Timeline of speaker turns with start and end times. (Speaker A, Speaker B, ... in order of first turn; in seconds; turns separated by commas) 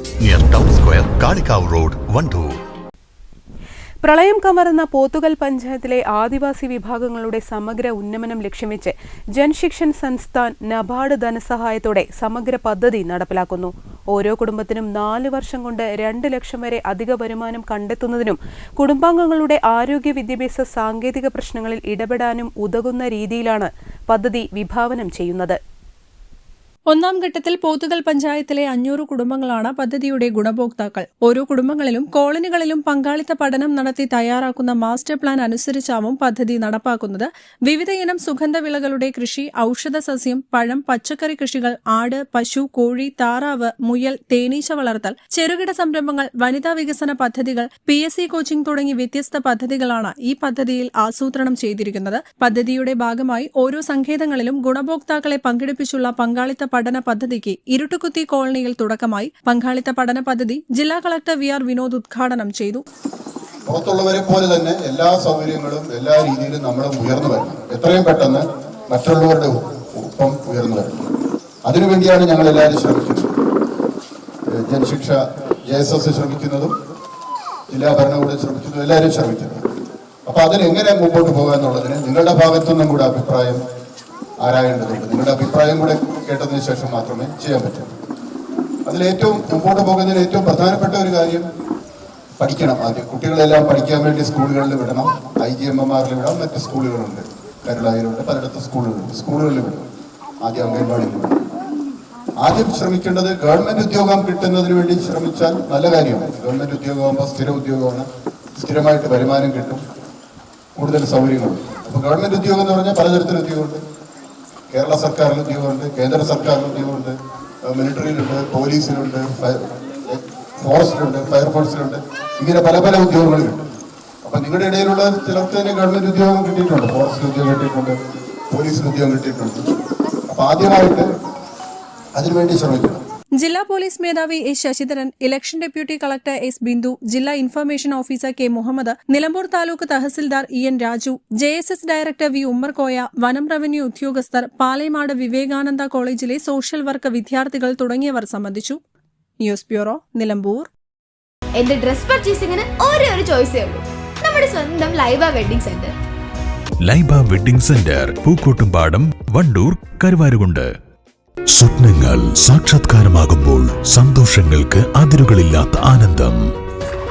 Speaker A: 0.2-2.5, Speaker B: 4.0-25.6, Speaker C: 26.9-62.8, Speaker D: 63.7-70.9, Speaker D: 71.7-73.3, Speaker D: 74.5-76.7, Speaker D: 77.7-79.7, Speaker D: 80.3-83.6, Speaker D: 84.4-87.9, Speaker D: 88.9-91.5, Speaker D: 92.4-99.8, Speaker D: 100.4-101.3, Speaker D: 102.4-109.8, Speaker D: 110.8-113.8, Speaker D: 114.7-123.6, Speaker D: 124.2-128.0, Speaker D: 128.5-129.7, Speaker D: 130.3-131.1, Speaker D: 132.2-133.0, Speaker C: 133.4-148.8, Speaker C: 149.4-150.7, Speaker E: 151.6-155.9, Speaker F: 156.8-160.7, Speaker F: 161.5-166.4